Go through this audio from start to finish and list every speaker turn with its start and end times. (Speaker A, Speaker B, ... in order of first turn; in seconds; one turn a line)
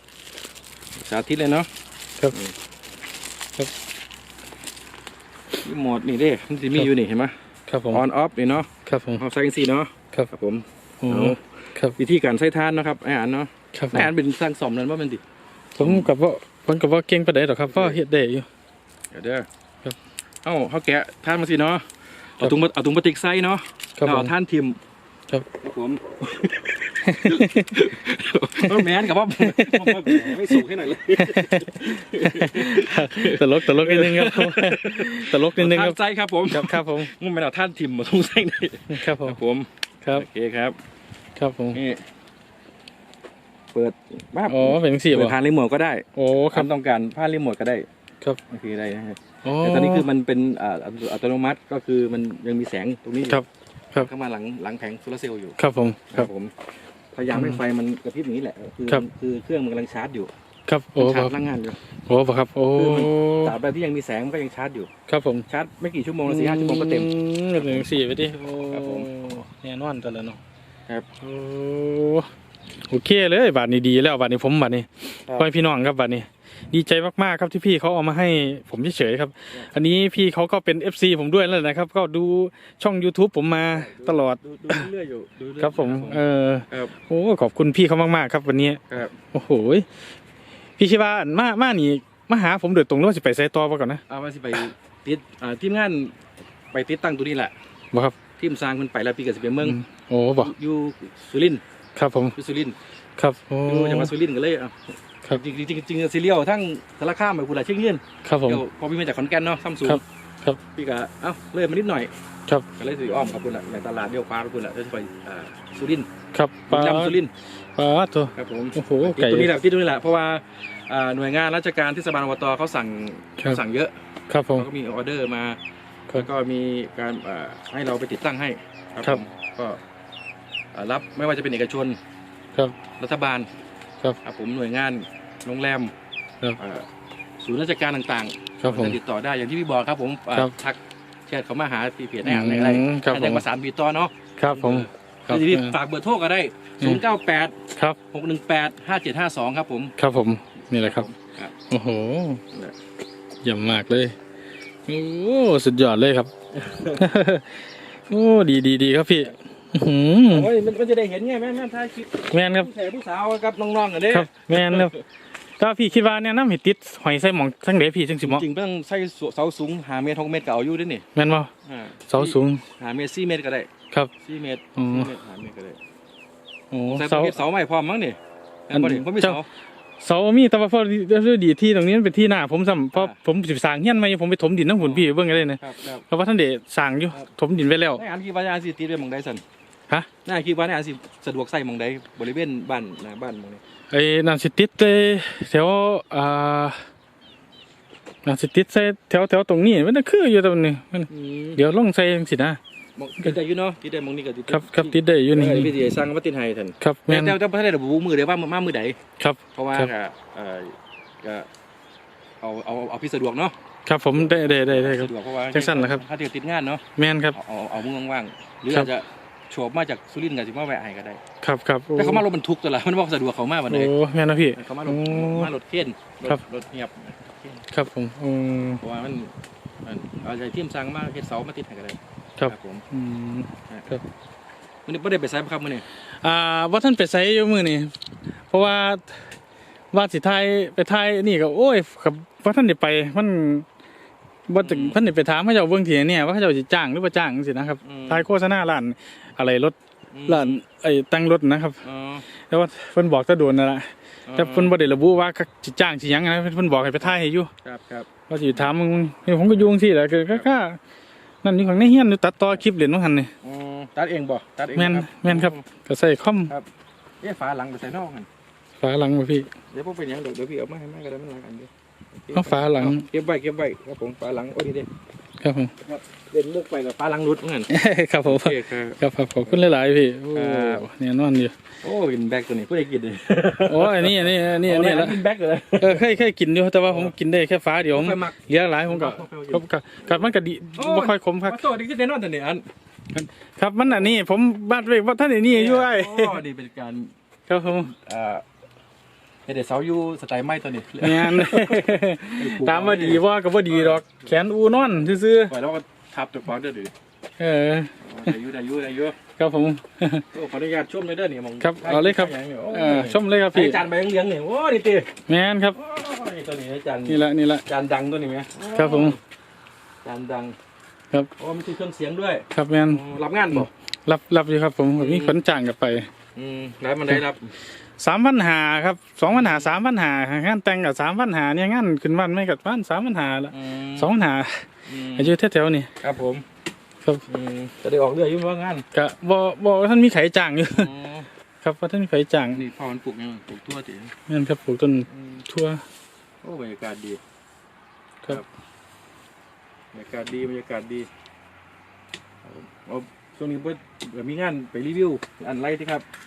Speaker A: 1.1-1.7
Speaker A: 5.6-7.3
Speaker B: 7.7-8.0
Speaker A: 7.9-15.2
Speaker B: 8.8-9.2
Speaker B: 11.0-11.9
Speaker B: 13.7-14.1
Speaker B: 15.8-18.5
Speaker A: 15.8-16.1
Speaker A: 19.1-19.4
Speaker A: 20.4-21.8
Speaker A: 22.4-24.8
Speaker B: 24.0-24.3
Speaker A: 25.6-40.7
Speaker B: 27.0-27.9
Speaker B: 28.6-30.6
Speaker B: 31.1-36.0
Speaker B: 36.5-37.1
Speaker B: 38.9-39.4
Speaker B: 41.4-41.8
Speaker A: 41.7-42.0
Speaker A: 43.7-47.9
Speaker B: 44.5-45.4
Speaker B: 46.2-46.7
Speaker A: 48.5-53.4
Speaker B: 49.4-50.1
Speaker B: 53.3-54.1
Speaker A: 54.0-55.6
Speaker B: 55.6-56.3
Speaker A: 56.1-56.5
Speaker A: 57.1-60.3
Speaker B: 57.3-57.6
Speaker B: 60.7-61.3
Speaker A: 61.0-61.8
Speaker B: 62.1-63.5
Speaker A: 62.7-64.9
Speaker B: 65.1-65.5
Speaker A: 65.5-67.8
Speaker B: 66.2-70.4
Speaker A: 68.7-69.1
Speaker B: 71.2-72.3
Speaker B: 72.8-84.9
Speaker A: 83.7-86.9
Speaker B: 85.6-88.8
Speaker A: 88.9-89.2
Speaker B: 89.3-89.9
Speaker B: 90.8-94.0
Speaker A: 94.1-96.1
Speaker A: 96.7-97.5
Speaker B: 97.9-98.2
Speaker A: 98.4-99.8
Speaker B: 99.6-100.5
Speaker A: 100.4-101.6
Speaker B: 102.0-102.3
Speaker A: 102.3-102.8
Speaker B: 103.2-104.1
Speaker A: 103.7-110.0
Speaker B: 108.2-108.6
Speaker B: 109.8-110.6
Speaker A: 110.8-112.1
Speaker A: 112.8-116.1
Speaker B: 116.3-117.1
Speaker A: 116.7-117.3
Speaker B: 117.8-119.5
Speaker A: 118.3-123.9
Speaker B: 124.3-124.7
Speaker A: 124.5-125.6
Speaker A: 126.1-129.8
Speaker A: 130.7-132.0
Speaker A: 133.0-133.5
Speaker A: 134.2-135.9
Speaker A: 136.6-136.8
Speaker A: 137.4-147.6
Speaker B: 138.6-139.0
Speaker B: 142.2-143.4
Speaker B: 144.4-145.8
Speaker A: 148.1-149.9
Speaker B: 150.0-151.1
Speaker A: 150.7-151.5
Speaker B: 151.7-152.4
Speaker B: 153.4-154.2
Speaker B: 154.8-156.3
Speaker A: 156.5-157.1
Speaker B: 156.9-160.5
Speaker A: 160.3-165.0
Speaker B: 162.3-162.7
Speaker B: 164.1-164.9
Speaker B: 165.6-168.4
Speaker A: 168.2-171.0
Speaker B: 171.1-171.5
Speaker A: 171.7-173.7
Speaker B: 172.1-172.6
Speaker A: 174.2-175.8
Speaker B: 174.8-175.1
Speaker B: 176.7-177.4
Speaker A: 176.9-178.2
Speaker A: 178.7-179.5
Speaker B: 178.7-179.4
Speaker B: 180.0-188.0
Speaker A: 182.9-183.2
Speaker A: 184.8-186.0
Speaker A: 187.9-189.4
Speaker A: 190.2-193.6
Speaker B: 193.9-196.8
Speaker B: 198.2-202.6
Speaker A: 201.1-201.6
Speaker A: 203.0-209.0
Speaker B: 204.5-205.7
Speaker B: 206.8-207.4
Speaker B: 209.2-209.9
Speaker A: 209.5-211.5
Speaker A: 212.4-213.5
Speaker B: 213.8-216.0
Speaker A: 214.2-216.8
Speaker B: 217.0-217.4
Speaker A: 217.3-221.2
Speaker B: 221.4-222.2
Speaker A: 221.9-223.9
Speaker B: 223.7-225.5
Speaker A: 224.6-227.6
Speaker B: 227.7-228.8
Speaker A: 228.8-229.3
Speaker A: 229.8-232.8
Speaker B: 232.4-234.0
Speaker A: 233.7-233.9
Speaker A: 234.8-235.8
Speaker B: 236.2-237.9
Speaker B: 238.5-239.3
Speaker B: 239.9-243.7
Speaker B: 244.5-249.8
Speaker A: 244.6-245.0
Speaker A: 247.8-248.2
Speaker A: 250.1-250.6
Speaker B: 250.3-251.8
Speaker A: 251.8-252.2
Speaker B: 252.4-257.5
Speaker A: 254.3-254.7
Speaker A: 257.6-258.7
Speaker B: 258.3-260.8
Speaker B: 261.4-263.3
Speaker A: 263.4-265.6
Speaker B: 264.7-266.5
Speaker A: 267.2-268.3
Speaker B: 268.8-269.5
Speaker A: 269.7-274.9
Speaker B: 272.3-273.1
Speaker B: 275.4-275.7
Speaker A: 275.8-277.7
Speaker B: 277.7-281.5
Speaker A: 278.2-279.0
Speaker A: 280.3-280.9
Speaker A: 281.8-286.1
Speaker B: 283.7-285.2
Speaker B: 285.8-291.6
Speaker A: 287.9-292.6
Speaker B: 293.1-296.4
Speaker A: 295.5-297.1
Speaker B: 297.5-297.9
Speaker A: 297.9-298.4
Speaker A: 299.5-304.2
Speaker B: 301.0-305.5
Speaker A: 305.5-306.9
Speaker B: 307.4-307.9
Speaker A: 308.0-309.2
Speaker B: 309.4-310.2
Speaker A: 310.3-315.1
Speaker B: 311.6-313.8
Speaker B: 315.3-315.8
Speaker A: 315.8-319.2
Speaker B: 317.1-317.6
Speaker B: 318.7-319.2
Speaker A: 320.0-320.5
Speaker A: 321.4-323.7
Speaker B: 322.5-326.1
Speaker A: 325.0-325.4
Speaker A: 326.4-327.5
Speaker B: 328.0-335.9
Speaker A: 329.3-329.7
Speaker A: 333.5-334.1
Speaker A: 334.9-335.3
Speaker A: 336.0-336.4
Speaker A: 337.3-338.9
Speaker B: 338.9-340.9
Speaker A: 340.8-341.3
Speaker B: 341.6-342.6
Speaker A: 342.5-344.1
Speaker B: 344.3-345.8
Speaker A: 345.1-345.4
Speaker A: 346.4-347.2
Speaker A: 349.9-351.1
Speaker A: 352.4-356.0